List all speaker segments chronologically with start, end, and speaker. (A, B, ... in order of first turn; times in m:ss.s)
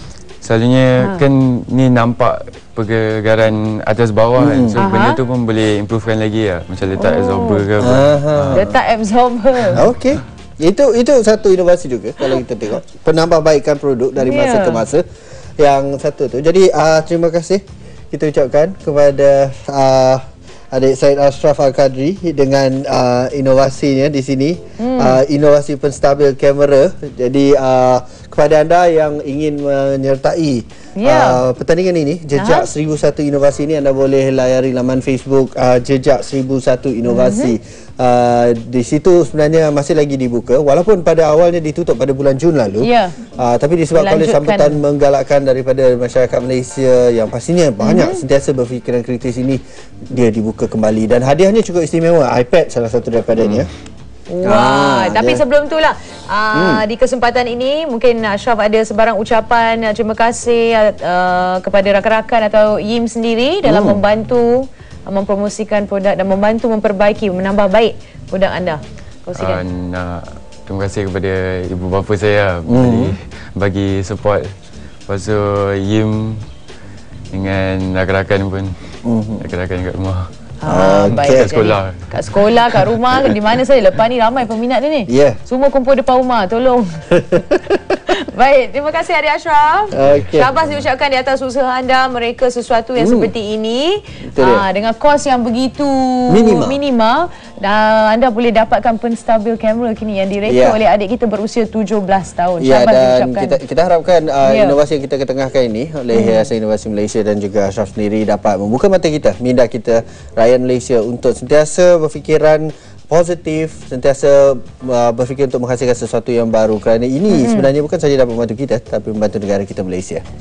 0:00.4-0:08.6 A
0:01.0-0:01.2 B
0:04.4-0:04.8 C
0:04.8-0:05.2 B
0:07.0-0:07.7 B
0:07.8-0:08.7 C
0:08.5-0:09.8 B
0:09.8-0:15.0 C
0:14.2-0:14.8 B
0:15.6-0:53.7 C
0:24.8-0:25.2 B
0:31.0-0:31.4 B
0:32.4-0:32.7 B
0:37.1-0:37.5 B
0:42.8-0:43.2 B
0:43.9-0:44.8 B
0:47.8-0:48.2 B
0:54.3-1:09.6 B
0:54.4-0:55.4 C
0:56.5-0:56.8 C
1:03.6-1:04.0 C
1:09.4-1:14.5 A
1:12.7-1:13.2 C
1:15.1-1:16.4 A
1:17.3-1:18.8 A
1:19.0-1:19.5 C
1:19.4-1:20.3 A
1:20.6-1:27.6 B
1:20.7-1:21.6 C
1:21.1-1:22.4 A
1:25.1-1:25.4 C
1:27.3-1:27.8 C
1:28.1-1:43.6 B
1:29.9-1:30.5 C
1:33.0-1:33.3 C
1:34.3-1:34.7 C
1:36.3-1:36.8 C
1:40.5-1:40.8 C
1:42.6-2:00.2 C
1:44.5-1:44.8 B
1:46.1-1:46.5 B
1:57.3-1:57.7 B